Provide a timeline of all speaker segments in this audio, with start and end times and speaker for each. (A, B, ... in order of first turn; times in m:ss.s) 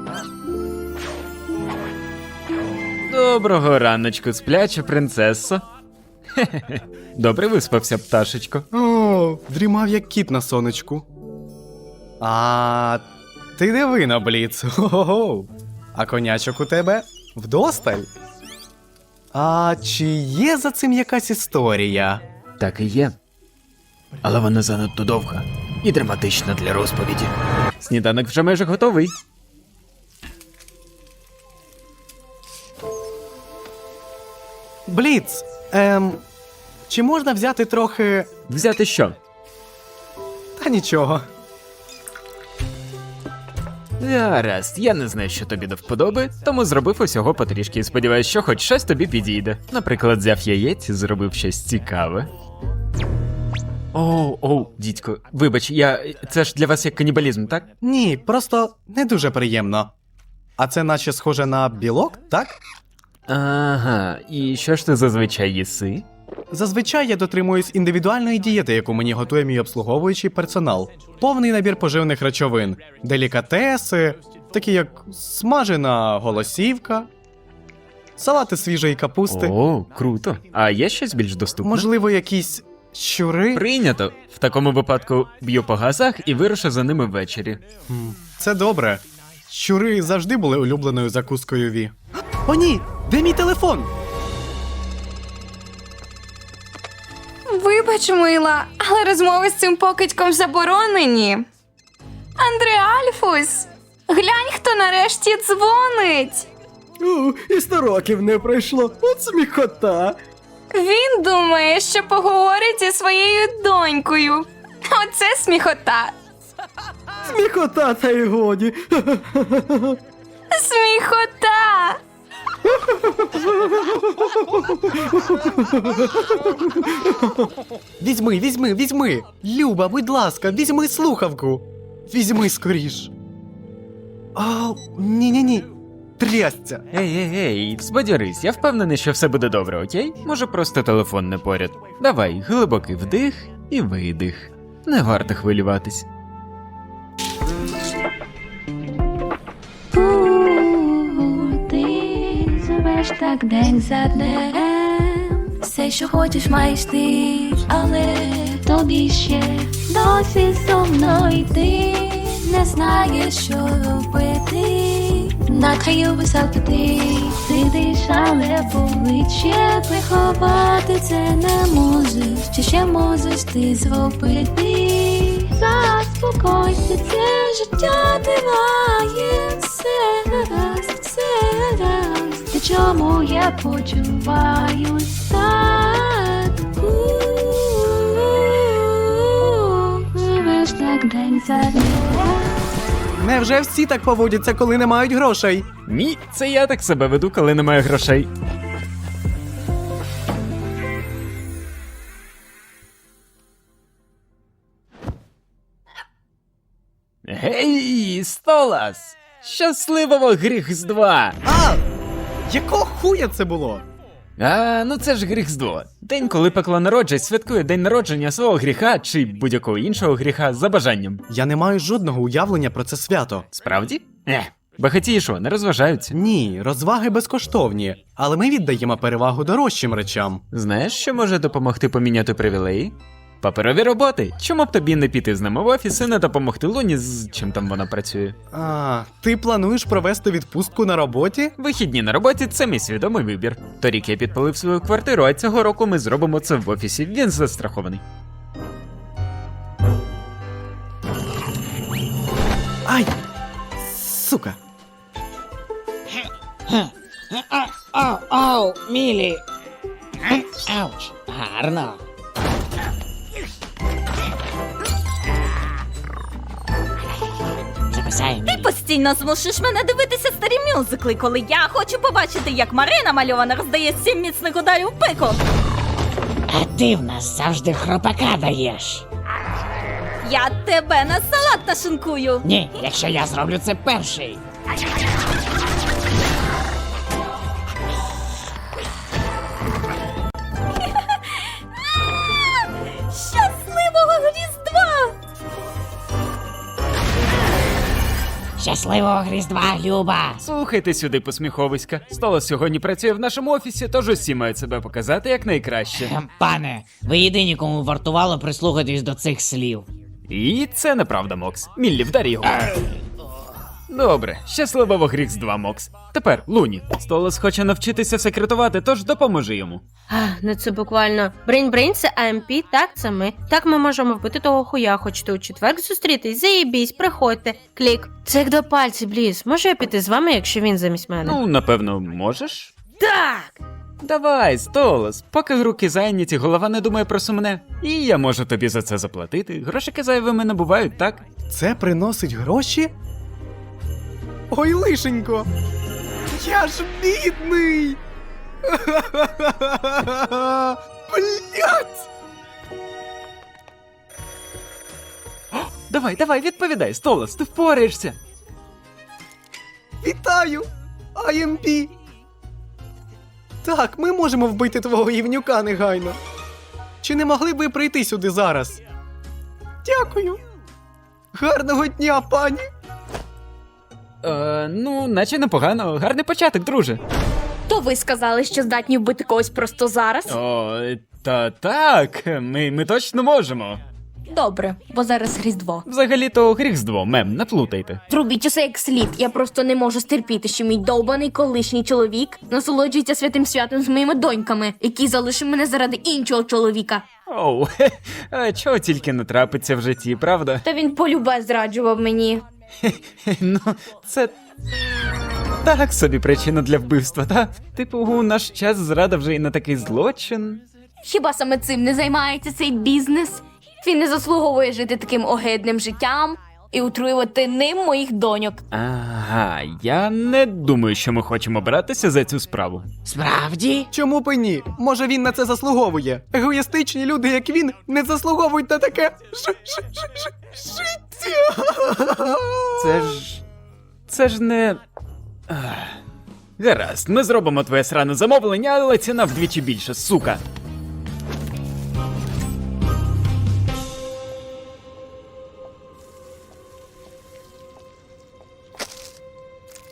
0:03.0-0:05.6 A
0:06.4-0:08.6 A
0:08.7-0:11.0 B
0:12.2-0:13.0 B
0:13.6-0:18.1 B
0:19.3-0:22.2 B
0:22.6-0:23.1 A
0:24.2-0:29.1 A
0:34.9-0:36.2 B
0:36.9-0:38.3 B
0:38.5-0:39.2 A
0:40.6-0:41.2 B
0:44.0-0:52.3 A
0:53.9-0:57.7 A
0:57.8-0:59.9 B
1:00.6-1:02.6 B
1:03.3-1:06.0 A
1:06.5-1:17.1 B
1:18.2-1:19.5 B
1:19.3-1:21.9 A
1:21.6-1:23.6 B
1:23.5-1:27.6 A
1:27.9-1:31.9 B
1:32.4-1:33.9 B
1:37.5-1:41.4 C
1:42.4-1:46.5 C
1:47.0-1:50.2 D
1:50.7-1:56.2 C
1:57.2-2:00.0 D
2:00.5-2:02.0 C
2:02.6-2:07.5 D
2:08.0-2:13.1 B
2:14.3-2:16.8 B
2:16.9-2:26.1 A
2:29.9-3:12.4 E
3:13.2-3:15.7 B
3:15.9-3:18.3 A
3:27.2-3:31.4 A
3:31.4-3:31.8 B
3:32.5-3:33.8 B
3:34.4-3:41.2 A
3:41.3-3:43.5 B
3:43.5-3:46.2 A
3:46.1-3:50.4 B
3:50.5-3:58.3 A
3:58.5-4:01.5 B
4:01.6-4:08.0 A
4:12.8-4:13.1 B
4:13.8-4:14.6 B
4:16.7-4:19.4 F
4:20.3-4:22.0 F
4:27.9-4:28.7 F
4:28.4-4:35.4 G
4:36.5-4:39.0 F
4:40.2-4:42.4 G
4:42.4-4:44.4 F
4:53.1-4:55.1 G
4:58.6-5:00.4 F
5:00.4-5:06.1 A
5:05.9-5:09.9 F
5:10.3-5:12.8 A
5:13.9-5:19.8 A
5:20.1-5:31.4 H
5:31.2-5:32.7 A
5:33.0-5:33.5 H
5:34.0-5:41.2 A
5:41.5-5:42.9 B
5:44.5-5:45.5 B
5:46.3-5:48.0 B
5:48.6-5:52.0 B
5:55.9-5:58.2 A
6:00.0-6:01.9 B
6:03.6-6:06.2 B
6:07.0-6:08.8 B
6:09.8-6:10.4 B
6:11.3-6:12.6 B
6:14.2-6:17.0 A
6:17.7-6:20.4 I
6:20.3-6:23.8 A
6:24.3-6:25.8 I
6:25.8-6:28.0 A
6:28.1-6:37.0 I
6:37.3-6:40.6 A
6:40.6-6:42.4 I
6:42.8-6:44.3 A
6:45.6-6:50.6 A
6:51.0-6:58.6 I
6:58.7-7:02.9 A
7:03.0-7:03.9 F
7:03.9-7:13.2 B
7:12.8-7:13.4 A
7:14.1-7:14.8 A
7:15.5-7:16.0 A
7:16.6-7:20.4 A